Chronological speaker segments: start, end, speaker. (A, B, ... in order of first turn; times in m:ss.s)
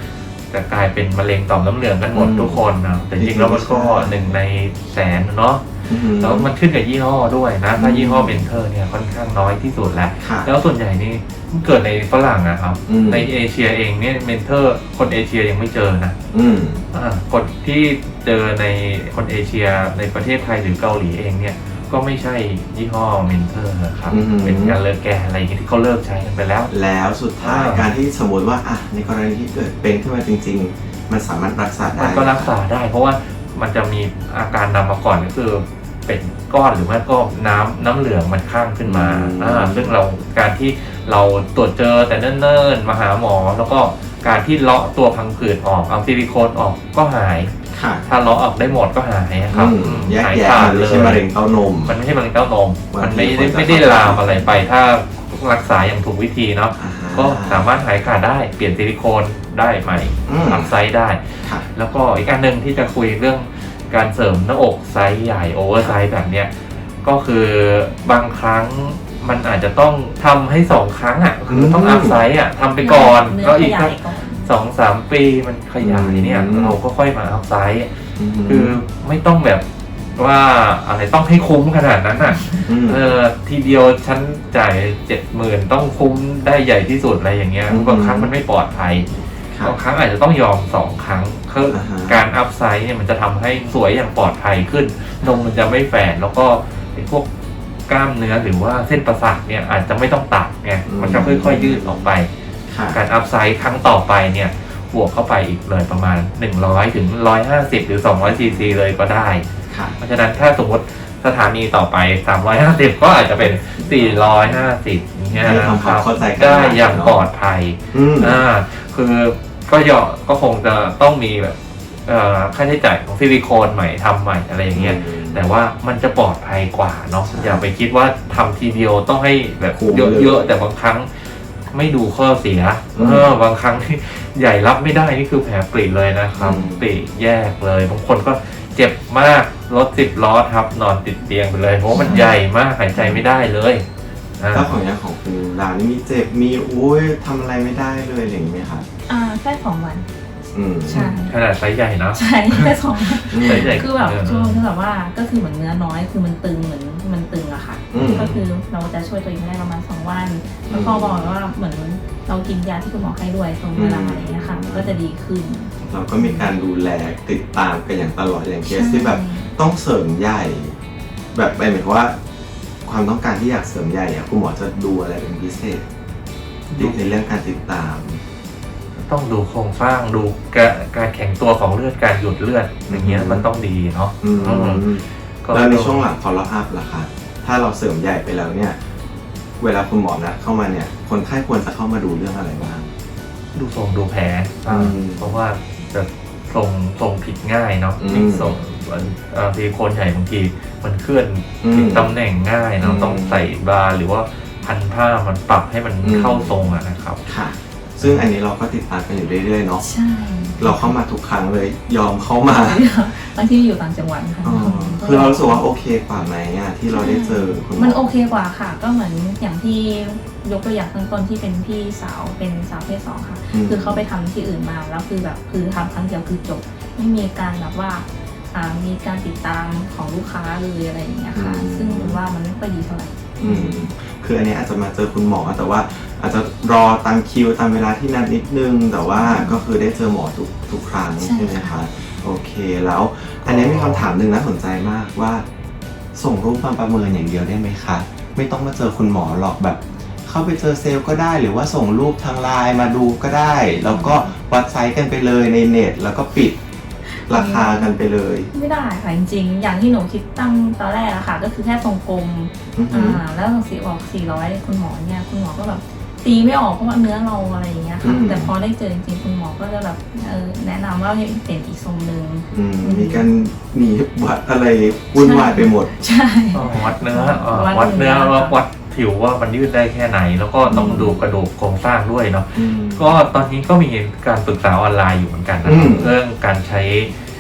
0:00.5-0:16.2 A
0:02.1-0:02.6 B
0:03.2-0:04.4 B
0:05.9-0:06.5 B
0:07.8-0:08.5 B
0:10.2-0:10.5 B
0:12.9-0:13.3 B
0:16.3-0:16.8 B
0:16.9-0:26.7 A
0:24.1-0:24.8 B
0:26.7-0:32.5 B
0:27.4-0:27.9 A
0:32.0-0:47.6 A
0:38.8-0:39.9 B
0:47.7-0:48.1 B
0:48.1-0:51.2 A
0:49.5-0:52.0 B
0:51.9-1:06.5 A
0:52.9-0:54.4 B
0:56.8-0:57.7 B
1:00.3-1:00.7 B
1:07.0-1:17.9 A
1:11.5-1:12.2 B
1:12.8-1:14.5 C
1:15.8-1:16.8 B
1:18.2-1:18.8 B
1:18.5-1:19.6 A
1:20.2-1:29.1 A
1:22.7-1:23.1 B
1:27.7-1:28.3 B
1:29.6-1:37.3 A
1:31.7-1:32.2 B
1:37.9-1:42.3 A
1:40.9-1:42.1 B
1:42.7-1:43.0 B
1:42.9-1:49.4 A
1:48.2-1:48.8 B
1:49.7-1:50.0 B
1:50.0-2:11.1 A
1:53.7-1:54.6 C
1:55.3-1:57.3 B
1:57.9-1:58.4 B
2:04.7-2:05.4 B
2:07.3-2:07.6 B
2:09.8-2:10.4 B
2:11.7-2:23.8 A
2:13.0-2:13.3 B
2:16.4-2:16.9 B
2:21.9-2:22.3 B
2:22.0-2:22.3 C
2:23.0-2:23.2 B
2:24.4-2:24.8 A
2:24.5-2:28.9 B
2:29.1-2:30.1 C
2:30.5-2:31.2 B
2:30.8-2:31.4 C
2:31.0-2:34.6 A
2:32.1-2:46.5 C
2:33.3-2:33.8 B
2:37.9-2:38.4 B
2:38.0-2:38.4 A
2:40.7-2:41.3 B
2:43.7-2:45.0 B
2:45.9-2:50.8 B
2:48.6-2:49.5 C
2:51.3-2:52.2 B
2:52.8-2:55.8 B
2:56.7-2:57.0 A
2:56.8-2:58.2 B
2:59.0-3:04.9 A
3:02.9-3:03.5 B
3:04.2-3:08.8 B
3:05.4-3:06.1 A
3:09.6-3:12.9 B
3:13.5-3:27.2 A
3:14.7-3:15.3 B
3:18.0-3:18.6 B
3:21.6-3:22.1 B
3:22.8-3:23.5 B
3:26.0-3:26.7 B
3:27.3-3:29.9 B
3:28.0-3:28.3 A
3:29.8-3:30.9 C
3:30.6-3:32.8 B
3:32.4-3:35.6 C
3:34.4-3:38.1 B
3:36.9-3:53.6 C
3:43.5-3:44.1 B
3:51.3-3:52.2 B
3:53.4-4:05.4 B
3:53.4-3:53.7 A
3:59.2-3:59.6 C
4:01.2-4:01.8 C
4:03.4-4:04.1 A
4:06.2-4:16.6 B
4:13.9-4:14.3 C
4:17.1-4:18.0 C
4:17.3-4:18.5 B
4:18.5-4:33.3 C
4:22.8-4:23.2 B
4:28.0-4:28.5 B
4:32.5-4:35.9 B
4:35.1-4:38.6 C
4:36.5-4:47.1 A
4:40.7-4:41.2 B
4:42.6-4:43.1 B
4:45.6-4:46.1 B